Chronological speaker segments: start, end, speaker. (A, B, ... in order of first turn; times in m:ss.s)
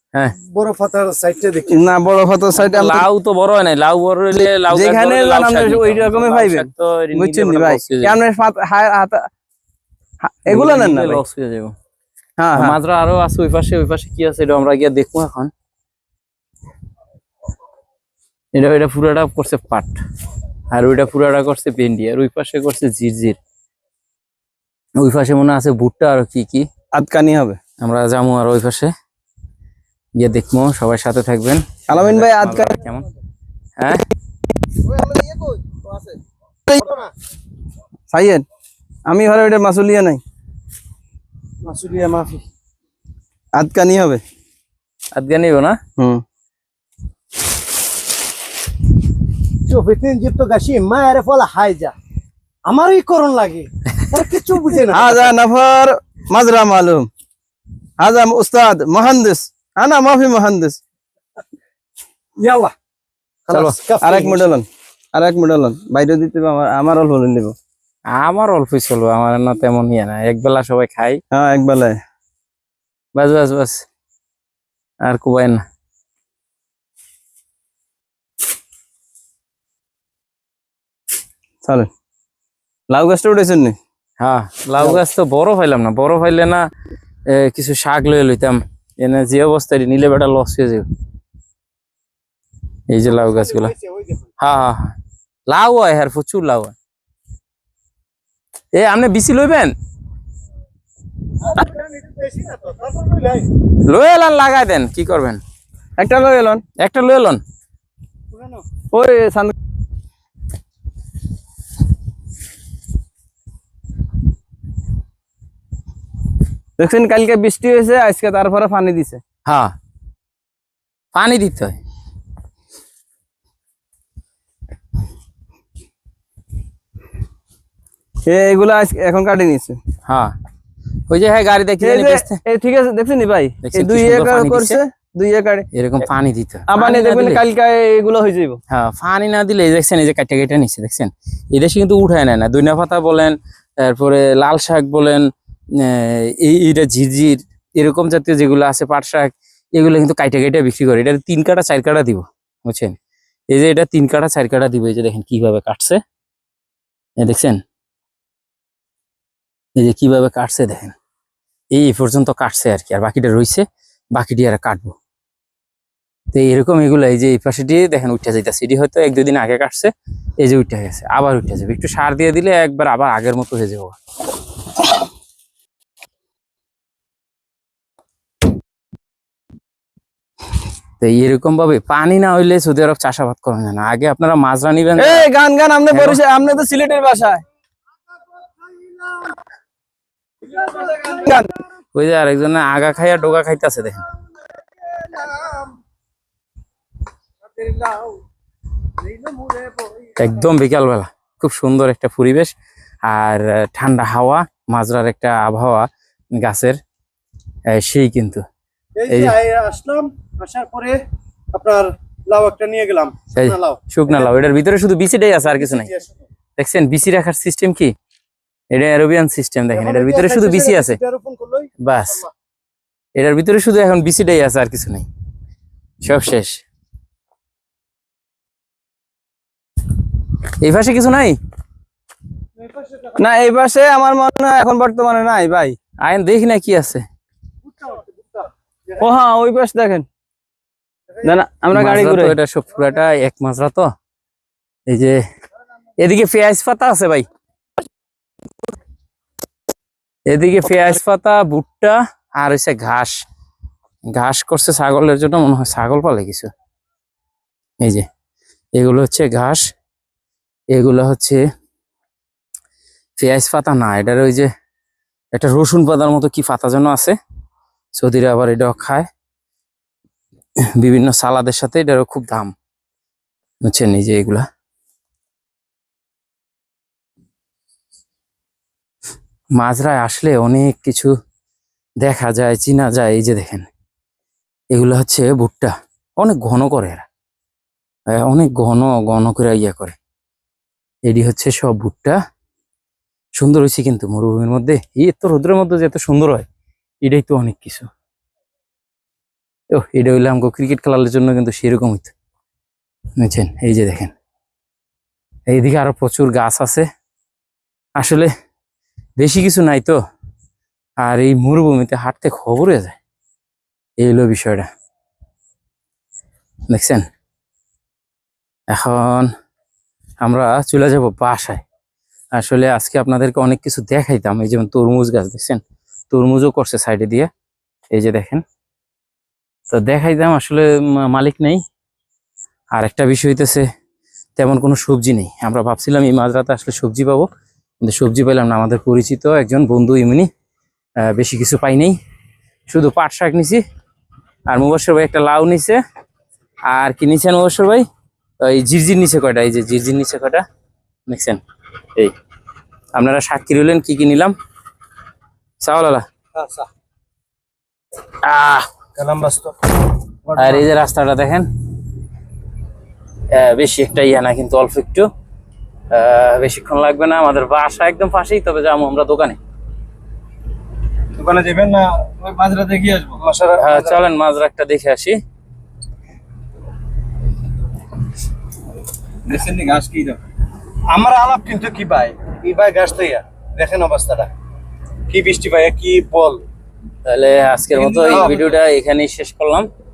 0:00.4-0:01.9 A
0:01.7-0:03.0 B
0:02.6-0:08.2 C
0:04.7-0:09.3 B
0:10.2-0:11.2 B
0:10.5-0:11.8 C
0:12.4-0:12.8 B
0:12.6-0:15.5 C
0:18.5-0:20.0 C
0:20.7-0:23.4 C
0:25.0-0:26.7 C
0:26.9-0:27.6 B
0:27.8-0:28.9 C
0:30.2-0:33.1 C
0:31.9-0:32.8 B
0:34.8-0:36.8 B
0:36.7-0:37.1 A
0:38.1-0:38.4 B
0:39.1-0:40.2 B
0:41.6-0:42.4 A
0:43.6-0:44.2 B
0:45.1-0:45.8 C
0:46.0-0:46.2 B
0:49.7-0:51.9 A
0:52.7-0:55.3 A
0:54.9-0:57.1 B
0:58.0-1:00.8 B
1:02.4-1:02.7 A
1:03.5-1:04.5 A
1:03.5-1:03.8 C
1:04.0-1:07.6 B
1:08.1-1:11.2 C
1:11.3-1:12.0 B
1:13.2-1:13.8 C
1:15.0-1:15.6 C
1:21.6-1:21.9 B
1:22.9-1:23.8 B
1:24.2-1:26.6 C
1:27.3-1:30.9 C
1:32.9-1:33.7 C
1:33.1-1:34.3 A
1:34.4-1:35.0 C
1:35.5-1:36.7 C
1:38.7-1:39.7 C
1:41.4-1:43.5 A
1:43.9-1:45.4 C
1:46.0-1:46.6 B
1:46.8-1:47.4 C
1:48.3-1:48.6 A
1:48.9-1:49.5 B
1:56.8-1:59.2 B
1:59.5-1:59.7 C
2:01.1-2:01.8 C
2:08.3-2:09.8 B
2:10.1-2:10.3 C
2:11.1-2:12.4 C
2:11.8-2:15.7 B
2:13.6-2:14.8 C
2:15.7-2:17.4 C
2:16.7-2:18.6 B
2:18.7-2:33.0 C
2:33.5-2:36.0 C
2:37.2-2:37.6 C
2:39.8-2:41.0 C
2:41.7-2:45.0 C
2:46.3-2:54.0 C
3:01.0-3:05.3 C
3:05.0-3:07.4 B
3:05.9-3:06.2 C
3:10.6-3:11.6 B
3:11.9-3:14.0 C
3:17.6-3:18.2 A
3:19.2-3:19.9 A
3:20.2-3:22.5 C
3:23.0-3:26.8 C
3:27.7-3:28.4 C
3:29.0-3:31.0 A
3:29.1-3:29.4 C
3:31.5-3:34.3 A
3:33.3-3:35.9 C
3:35.5-3:36.2 A
3:36.6-3:37.9 C
3:38.7-3:41.0 C
3:39.7-3:42.3 A
3:41.8-3:42.2 C
3:43.2-3:45.1 C
3:46.0-3:46.6 C
3:50.6-3:51.4 C
3:52.7-3:53.1 A
3:53.2-3:55.8 B
3:56.0-3:57.0 C
3:57.7-3:58.4 A
3:59.0-4:00.1 B
4:01.2-4:02.4 B
4:01.7-4:03.9 C
4:04.9-4:05.2 C
4:06.0-4:07.3 C
4:10.3-4:13.1 C
4:14.1-4:16.5 C
4:18.8-4:19.6 C
4:20.7-4:21.4 C
4:23.2-4:24.5 C
4:25.3-4:27.2 C
4:28.0-4:29.1 C
4:30.8-4:32.5 C
4:33.6-4:34.5 C
4:39.6-4:41.1 C
4:42.0-4:43.7 C
4:44.7-4:47.1 C
4:48.1-4:50.0 C
4:51.1-4:52.2 C
4:53.4-4:56.4 C
4:57.0-4:57.9 C
4:59.7-5:02.1 C
5:03.2-5:04.1 C
5:05.5-5:06.9 C
5:08.0-5:08.3 C
5:09.2-5:10.0 C
5:11.0-5:13.0 C
5:14.0-5:14.7 C
5:16.7-5:17.0 C
5:18.7-5:19.3 C
5:20.2-5:21.6 C
5:22.4-5:27.3 C
5:27.9-5:28.4 C
5:29.7-5:31.6 C
5:32.7-5:33.7 C
5:34.4-5:37.3 C
5:37.8-5:40.3 C
5:41.0-5:42.0 C
5:42.7-5:43.6 C
5:44.5-5:45.8 C
5:46.7-5:47.8 C
5:48.4-5:50.4 C
5:51.1-5:51.4 C
5:53.0-5:54.3 C
5:55.6-5:56.0 C
5:56.4-5:56.7 A
5:58.2-5:58.7 C
5:59.0-5:59.5 A
6:00.3-6:00.6 A
6:00.4-6:01.5 C
6:03.3-6:05.1 C
6:05.9-6:09.4 C
6:11.2-6:12.1 A
6:12.2-6:13.2 B
6:13.2-6:14.0 A
6:13.6-6:15.2 C
6:19.3-6:20.2 B
6:20.9-6:24.3 A
6:25.1-6:26.4 A
6:27.1-6:29.7 C
6:27.8-6:28.5 B
6:28.1-6:28.4 A